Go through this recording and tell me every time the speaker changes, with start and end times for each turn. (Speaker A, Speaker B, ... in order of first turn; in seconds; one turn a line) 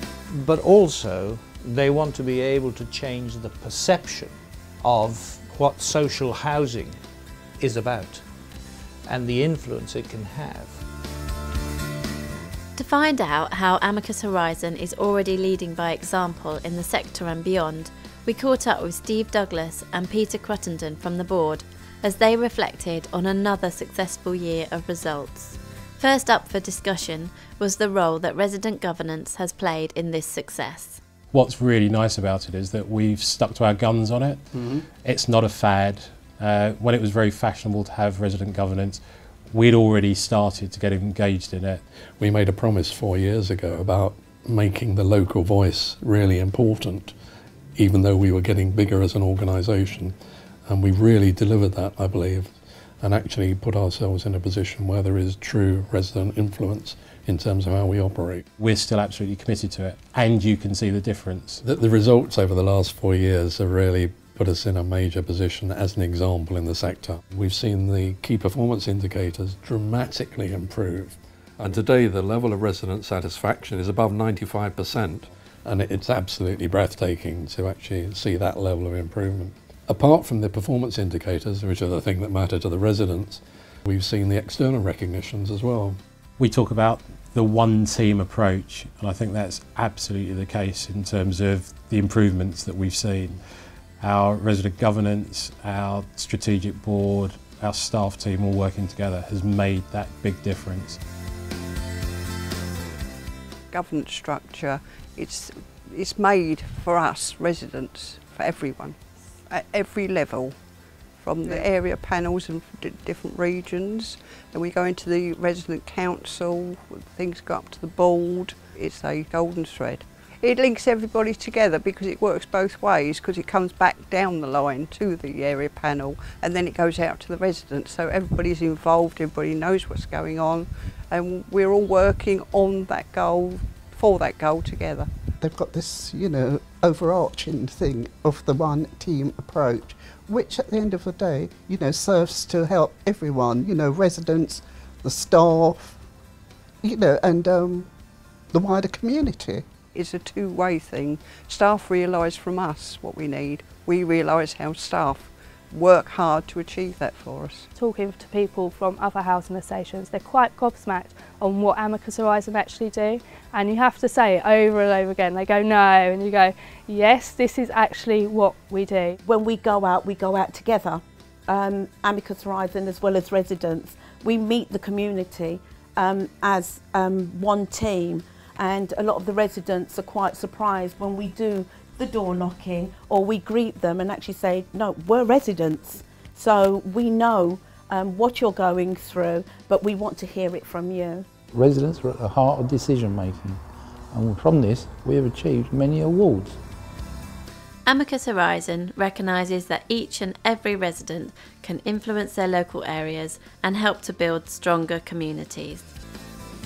Speaker A: 0.3-7.0
Speaker A: 7.6-8.3
Speaker A: 9.1-10.8
Speaker B: 12.8-31.0
Speaker C: 31.3-41.8
Speaker D: 42.2-47.1
Speaker D: 47.8-50.1
Speaker D: 50.7-52.5
Speaker D: 53.0-58.4
Speaker C: 58.6-61.6
Speaker D: 61.6-86.0
Speaker C: 86.4-93.4
Speaker C: 94.0-101.0
Speaker E: 103.7-109.0
Speaker E: 109.5-110.6
Speaker E: 111.2-135.1
Speaker F: 135.4-146.0
Speaker F: 146.8-147.9
Speaker F: 148.5-149.7
Speaker E: 149.9-157.7
Speaker G: 157.8-169.2
Speaker H: 169.2-191.2
Speaker I: 191.5-193.6
Speaker I: 194.1-196.6
Speaker B: 197.9-205.9